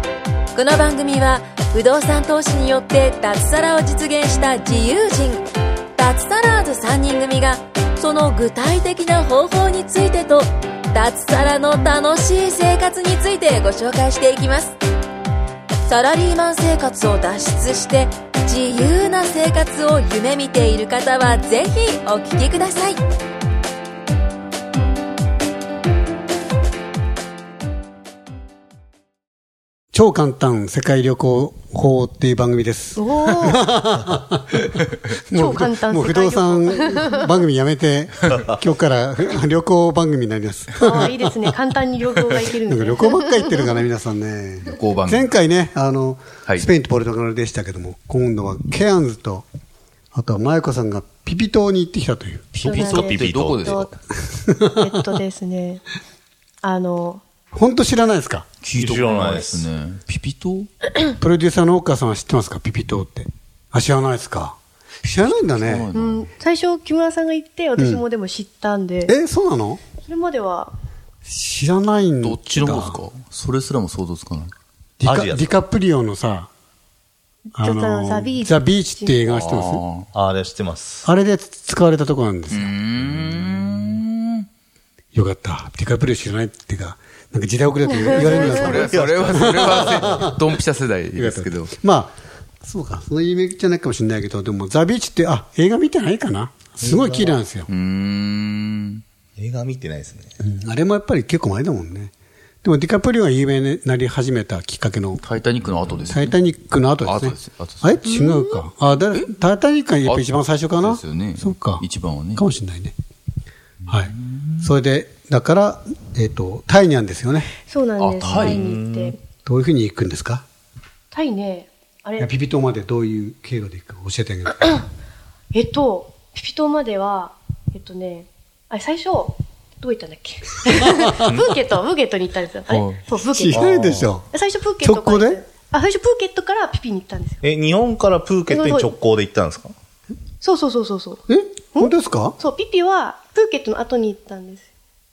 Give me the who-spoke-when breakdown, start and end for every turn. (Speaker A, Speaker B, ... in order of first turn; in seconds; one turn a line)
Speaker A: 0.5-14.8
Speaker A: 15.8-23.0
Speaker B: 29.9-34.7
Speaker C: 33.0-33.7
Speaker B: 35.3-41.5
Speaker C: 35.3-37.4
Speaker D: 38.3-38.5
Speaker C: 40.7-43.7
Speaker B: 42.4-49.5
Speaker E: 44.7-45.3
Speaker B: 50.1-52.6
Speaker D: 52.5-53.9
Speaker C: 52.6-53.9
Speaker E: 52.7-53.9
Speaker B: 54.3-55.0
Speaker C: 54.7-55.8
Speaker C: 56.6-57.2
Speaker B: 57.5-58.5
Speaker E: 58.6-60.7
Speaker D: 58.8-59.7
Speaker B: 61.2-65.9
Speaker E: 65.4-66.3
Speaker C: 65.9-69.1
Speaker B: 67.8-68.0
Speaker B: 69.0-69.8
Speaker C: 70.0-70.7
Speaker B: 71.2-73.0
Speaker E: 72.2-74.5
Speaker B: 75.0-76.5
Speaker D: 75.0-75.6
Speaker C: 77.5-79.2
Speaker B: 77.5-79.8
Speaker E: 79.2-80.1
Speaker D: 80.1-81.1
Speaker B: 81.0-82.7
Speaker E: 82.5-84.5
Speaker B: 85.1-90.5
Speaker C: 87.9-88.9
Speaker E: 88.1-91.7
Speaker D: 88.8-90.3
Speaker B: 91.1-97.7
Speaker D: 96.8-97.4
Speaker E: 97.7-99.0
Speaker D: 99.3-100.3
Speaker B: 100.4-102.1
Speaker B: 102.6-105.2
Speaker E: 105.2-106.3
Speaker B: 106.1-112.9
Speaker E: 107.0-108.0
Speaker C: 108.0-108.6
Speaker E: 110.8-112.4
Speaker E: 113.8-114.5
Speaker B: 113.9-117.5
Speaker C: 117.7-119.2
Speaker E: 118.0-118.6
Speaker D: 118.3-119.1
Speaker B: 119.4-120.4
Speaker C: 121.1-122.3
Speaker B: 122.2-124.7
Speaker C: 125.5-137.4
Speaker E: 132.7-133.0
Speaker B: 133.3-134.3
Speaker D: 133.5-134.1
Speaker B: 134.8-135.4
Speaker D: 137.4-139.7
Speaker C: 138.5-138.9
Speaker C: 140.4-144.7
Speaker B: 141.3-142.3